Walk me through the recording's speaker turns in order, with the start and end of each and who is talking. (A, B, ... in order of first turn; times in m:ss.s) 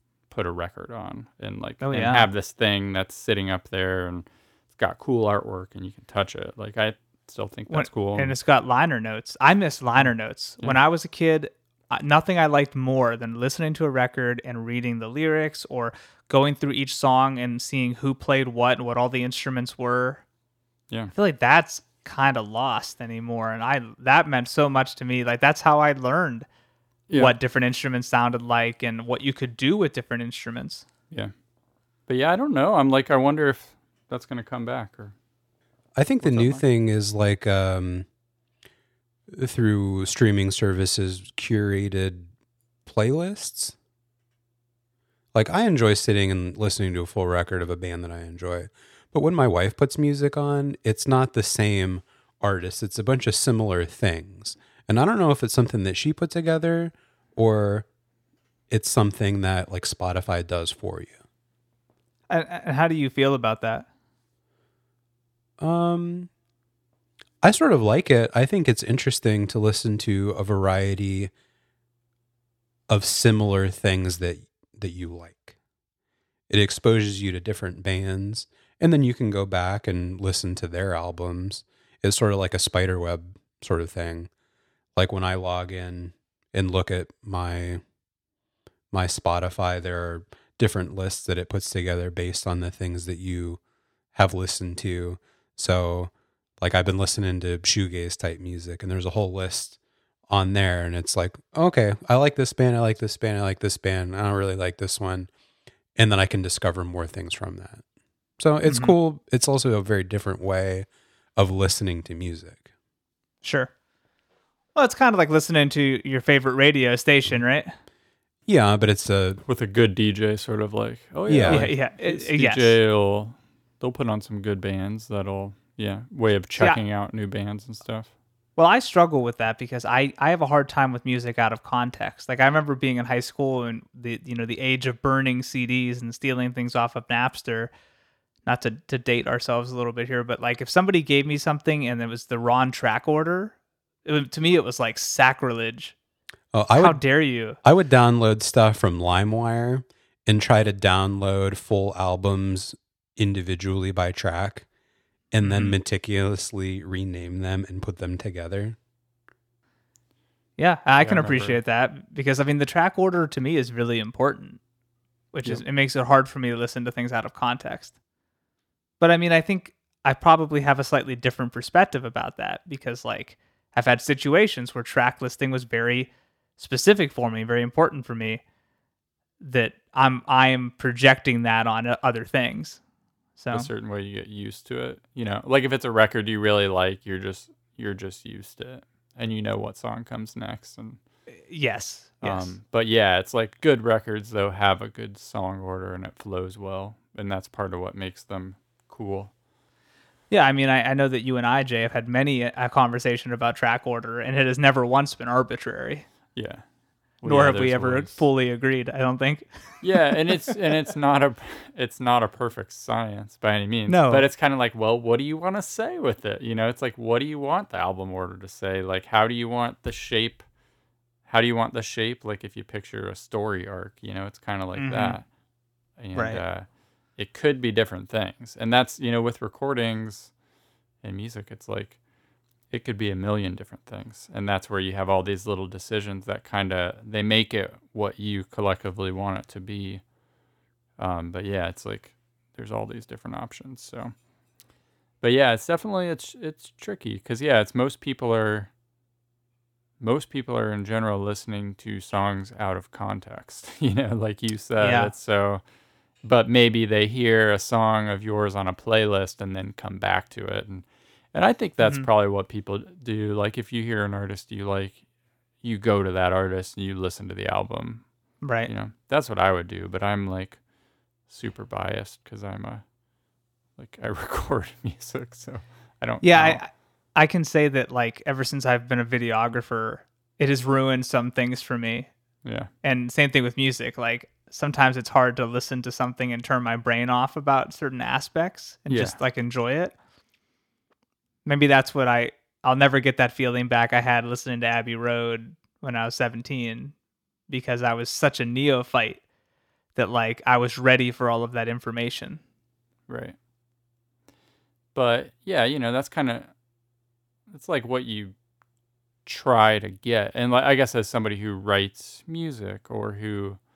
0:00.3-0:08.4 A
0:01.8-0:02.2 B
0:07.7-0:20.2 B
0:21.1-0:26.5 B
0:27.1-0:27.4 A
0:27.2-0:30.9 B
0:32.1-0:35.1 A
0:36.0-0:38.1 C
0:36.2-0:36.6 A
0:39.3-0:42.3 C
0:42.9-0:43.8 C
0:45.3-0:57.9 C
0:58.7-1:01.2 C
1:02.3-1:03.9 B
1:05.6-1:06.3 C
1:07.4-1:11.3 C
1:12.9-1:15.6 C
1:16.5-1:24.3 C
1:25.0-1:27.8 C
1:28.9-1:33.6 C
1:34.1-1:39.8 C
1:40.3-1:45.3 C
1:46.0-1:47.8 C
1:48.4-1:52.6 C
1:48.6-1:48.9 B
1:53.4-1:53.7 B
1:54.8-1:57.7 B
1:58.5-1:59.4 C
1:59.5-2:08.1 A
2:01.3-2:01.7 C
2:01.5-2:02.8 B
2:08.6-2:17.7 B
2:18.5-2:25.9 B
2:26.5-2:27.0 C
2:26.8-2:27.6 B
2:27.6-2:34.7 C
2:35.3-2:38.8 C
2:35.4-2:35.7 B
2:40.6-2:44.6 B
2:41.0-2:41.6 A
2:45.3-2:47.9 B
2:49.0-2:58.4 B
2:59.4-3:02.8 B
3:03.4-3:03.7 B
3:03.5-3:11.0 A
3:11.4-3:12.5 B
3:12.2-3:19.3 A
3:20.3-3:26.1 B
3:26.4-3:26.6 A
3:27.2-3:28.2 A
3:27.3-3:30.2 B
3:29.8-3:40.4 A
3:33.9-3:34.2 B
3:41.3-3:45.3 A
3:44.8-3:45.2 B
3:46.0-3:50.3 A
3:46.2-3:46.4 B
3:51.0-3:52.0 A
3:52.7-4:00.0 A
4:01.0-4:04.1 A
4:05.2-4:08.7 A
4:10.0-4:15.6 A
4:14.8-4:15.1 B
4:16.2-4:25.0 A
4:21.8-4:22.1 B
4:25.6-4:30.6 A
4:28.4-4:28.7 B
4:31.3-4:32.8 A
4:33.8-4:36.6 A
4:36.2-4:42.1 B
4:42.4-4:42.7 A
4:42.8-4:50.0 B
4:48.9-4:49.2 A
4:51.4-4:57.0 B
4:57.5-4:59.2 B
5:00.0-5:02.4 B
5:03.1-5:03.4 A
5:05.0-5:06.5 A
5:07.5-5:08.4 A
5:09.2-5:13.6 A